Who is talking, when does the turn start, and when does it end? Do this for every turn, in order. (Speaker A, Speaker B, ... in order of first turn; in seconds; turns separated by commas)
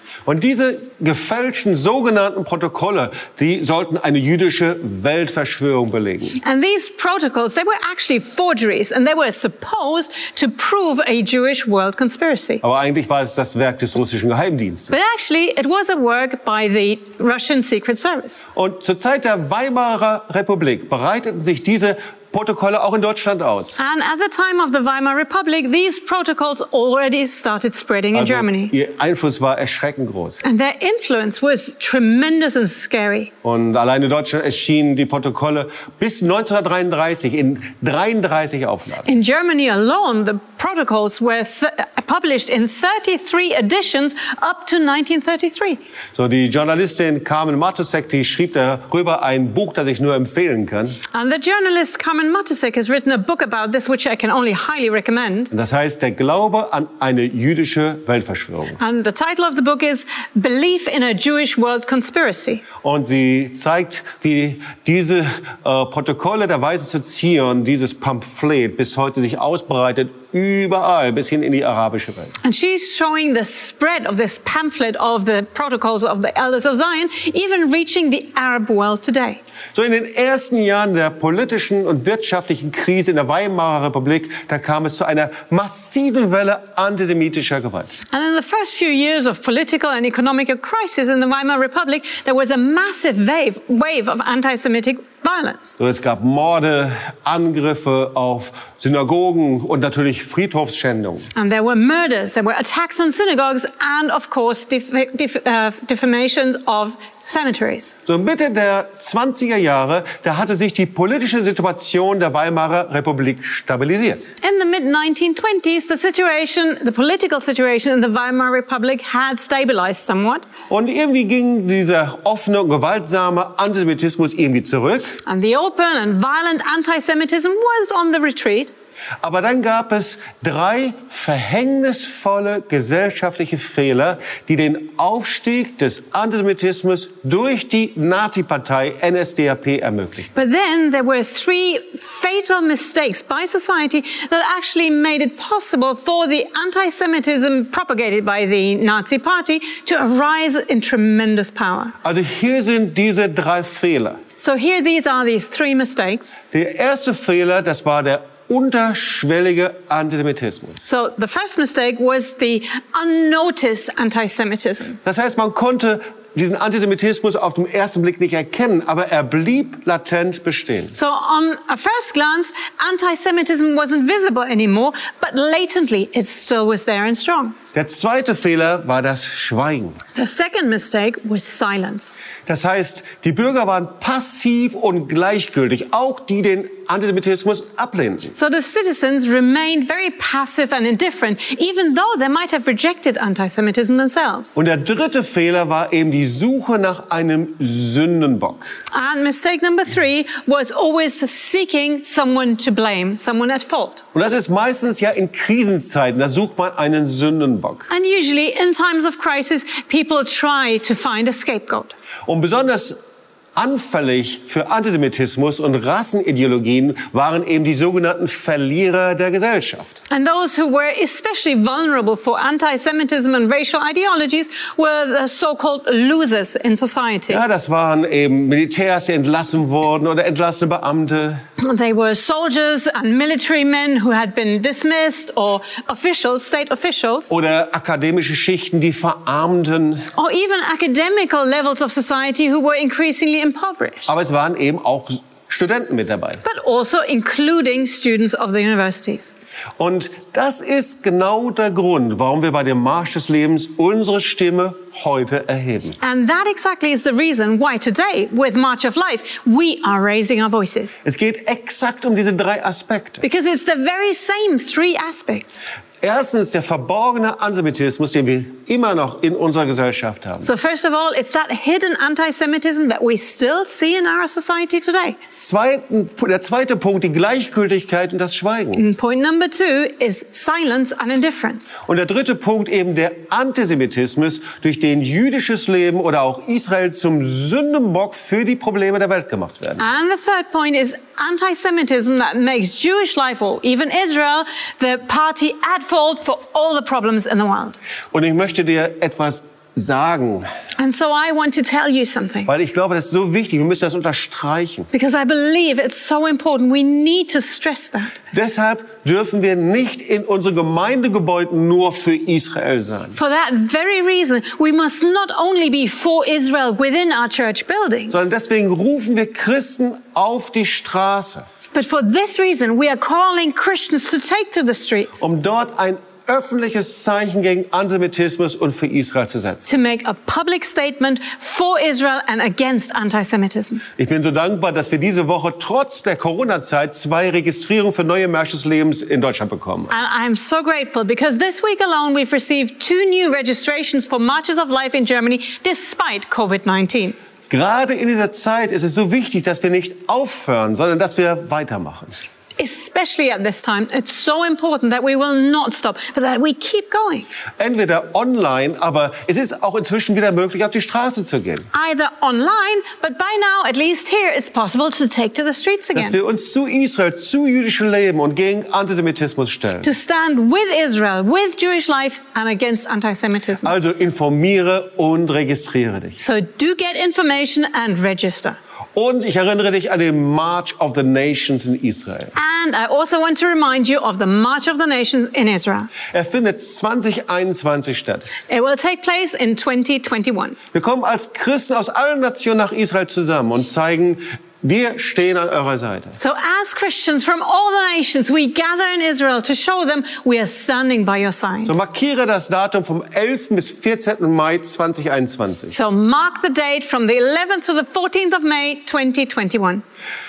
Speaker A: 0.3-6.4, Speaker B: 6.4-12.6, Speaker A: 12.6-14.9, Speaker B: 14.9-18.4, Speaker A: 18.6-23.8, Speaker B: 23.8-28.7, Speaker A: 28.1-30.4, Speaker B: 30.4-33.3, Speaker A: 33.4-39.1, Speaker B: 39.1-45.8, Speaker A: 46.1-51.0, Speaker B: 51.1-55.5, Speaker A: 55.5-58.8, Speaker B: 58.8-62.6, Speaker A: 62.8-72.3, Speaker B: 72.4-79.4, Speaker A: 79.7-87.9, Speaker B: 88.1-95.8, Speaker A: 95.8-101.3, Speaker B: 101.3-108.0, Speaker A: 108.1-114.2, Speaker B: 114.4-120.5, Speaker A: 120.7-125.2, Speaker B: 125.2-128.7, Speaker A: 129.2-140.3, Speaker B: 140.3-151.9, Speaker A: 152.0-154.2, Speaker B: 154.4-156.4, Speaker A: 156.5-160.8, Speaker B: 160.8-165.0, Speaker A: 165.1-171.0, Speaker B: 170.9-177.6, Speaker A: 177.7-180.0, Speaker B: 180.2-182.2, Speaker A: 182.5-188.3, Speaker B: 188.3-194.5, Speaker A: 194.6-198.7, Speaker B: 198.9-204.0, Speaker A: 204.1-207.9, Speaker B: 207.9-211.9, Speaker A: 212.3-213.0, Speaker A: 213.6-219.9, Speaker B: 220.1-227.4, Speaker A: 227.3-231.4, Speaker B: 231.6-237.3, Speaker A: 237.3-240.1, Speaker B: 240.2-244.1, Speaker A: 244.1-246.4, Speaker B: 246.4-249.3, Speaker A: 249.8-256.0, Speaker B: 256.0-261.0, Speaker A: 261.1-263.2, Speaker B: 263.2-265.6, Speaker A: 266.0-270.5, Speaker B: 270.4-275.2, Speaker A: 275.4-278.9, Speaker B: 278.8-281.8, Speaker A: 281.9-289.8, Speaker B: 289.8-297.8, Speaker A: 298.1-300.5, Speaker B: 300.8-302.5, Speaker A: 302.5-304.9, Speaker B: 304.9-308.1, Speaker A: 308.3-313.2, Speaker B: 313.2-318.2, Speaker A: 318.1-321.4, Speaker B: 321.7-325.2, Speaker A: 325.2-329.7, Speaker B: 329.7-333.8, Speaker A: 334.0-339.9, Speaker B: 339.9-347.2, Speaker A: 347.5-352.2, Speaker B: 352.6-357.3, Speaker A: 357.6-361.7, Speaker B: 361.7-366.2, Speaker A: 365.9-369.9, Speaker B: 369.8-373.7, Speaker A: 373.6-376.2, Speaker B: 376.2-378.6, Speaker A: 378.9-382.3, Speaker B: 382.4-385.9, Speaker A: 386.1-388.3, Speaker B: 388.5-390.6, Speaker A: 390.7-396.2, Speaker B: 396.2-401.7, Speaker A: 401.6-405.7, Speaker B: 405.7-409.8